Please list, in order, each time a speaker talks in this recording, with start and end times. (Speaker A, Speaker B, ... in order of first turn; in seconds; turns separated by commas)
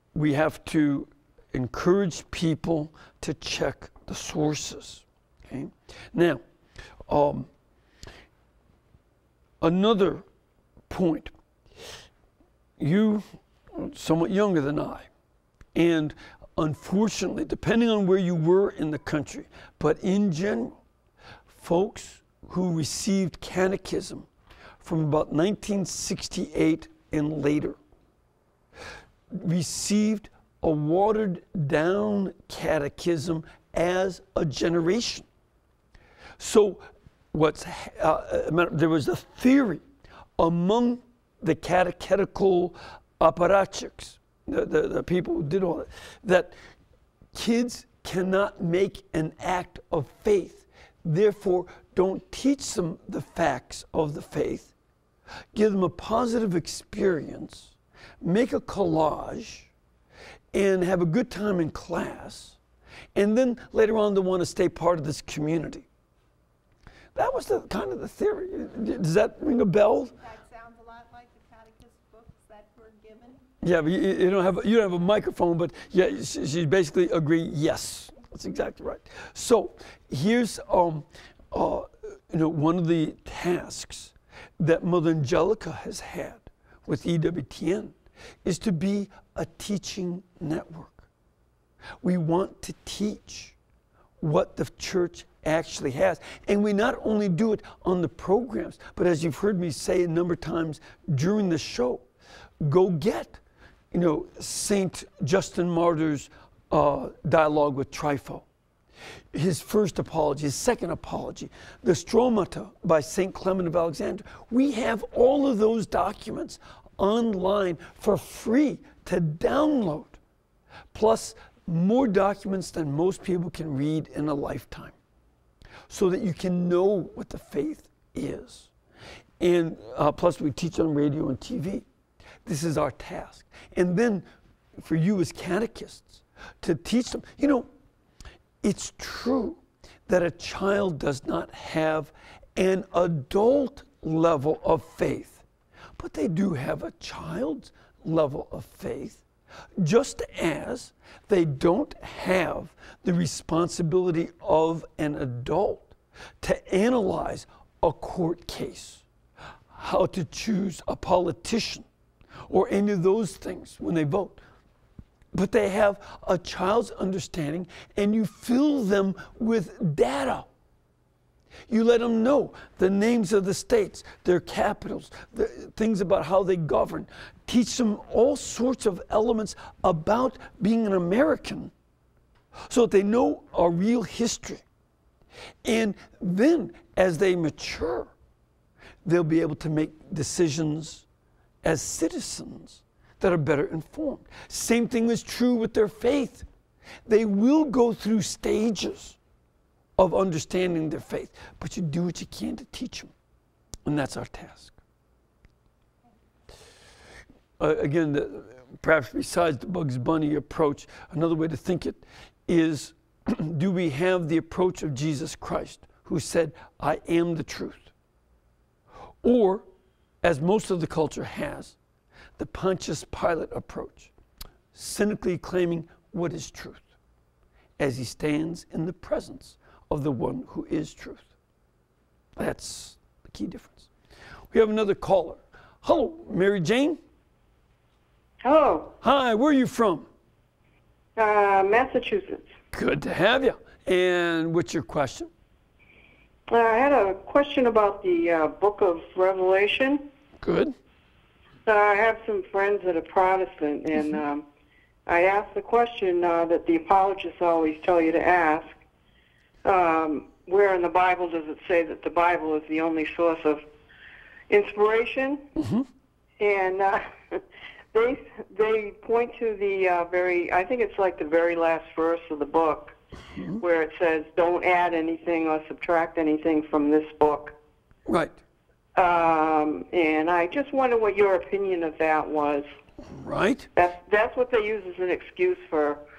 Speaker A: 0.1-6.4, Speaker A: 7.1-7.5, Speaker A: 9.6-10.2, Speaker A: 10.9-11.3, Speaker A: 12.8-15.1, Speaker A: 15.7-20.8, Speaker A: 21.5-24.3, Speaker A: 24.8-27.8, Speaker A: 29.3-35.3, Speaker A: 36.4-39.8, Speaker A: 40.4-46.5, Speaker A: 47.3-54.7, Speaker A: 55.5-59.7, Speaker A: 60.5-62.6, Speaker A: 63.1-65.8, Speaker A: 67.1-70.2, Speaker B: 70.3-73.5, Speaker A: 73.6-91.1, Speaker A: 92.0-93.5, Speaker A: 94.2-102.1, Speaker A: 102.6-103.4, Speaker A: 103.9-108.5, Speaker A: 109.3-120.2, Speaker A: 120.9-125.0, Speaker A: 125.9-128.7, Speaker A: 129.4-131.8, Speaker A: 132.4-134.2, Speaker A: 134.8-137.7, Speaker A: 138.6-145.4, Speaker A: 146.0-149.2, Speaker A: 149.8-159.0, Speaker A: 159.7-161.8, Speaker A: 162.5-164.4, Speaker A: 165.3-170.5, Speaker A: 171.7-181.7, Speaker A: 182.7-184.6, Speaker A: 185.6-188.1, Speaker A: 189.0-191.0, Speaker A: 191.6-196.4, Speaker A: 197.1-199.2, Speaker A: 200.0-203.1, Speaker A: 203.8-204.8, Speaker A: 207.6-217.9, Speaker A: 219.2-219.7, Speaker A: 220.2-221.8, Speaker A: 222.4-224.1, Speaker A: 224.7-226.9, Speaker A: 227.8-231.3, Speaker A: 232.4-233.9, Speaker A: 234.5-237.0, Speaker C: 238.4-238.9, Speaker A: 239.0-240.1, Speaker C: 241.2-242.4, Speaker A: 242.7-245.3, Speaker C: 246.5-250.0, Speaker A: 250.4-250.7, Speaker C: 251.7-254.4, Speaker C: 255.1-258.8, Speaker C: 259.6-263.6, Speaker C: 264.5-265.4, Speaker A: 265.6-265.9, Speaker C: 266.4-267.4, Speaker C: 267.9-272.9, Speaker A: 273.3-273.6, Speaker C: 273.6-277.5, Speaker A: 278.1-278.4, Speaker C: 278.9-282.6, Speaker A: 283.0-283.7, Speaker C: 283.8-286.0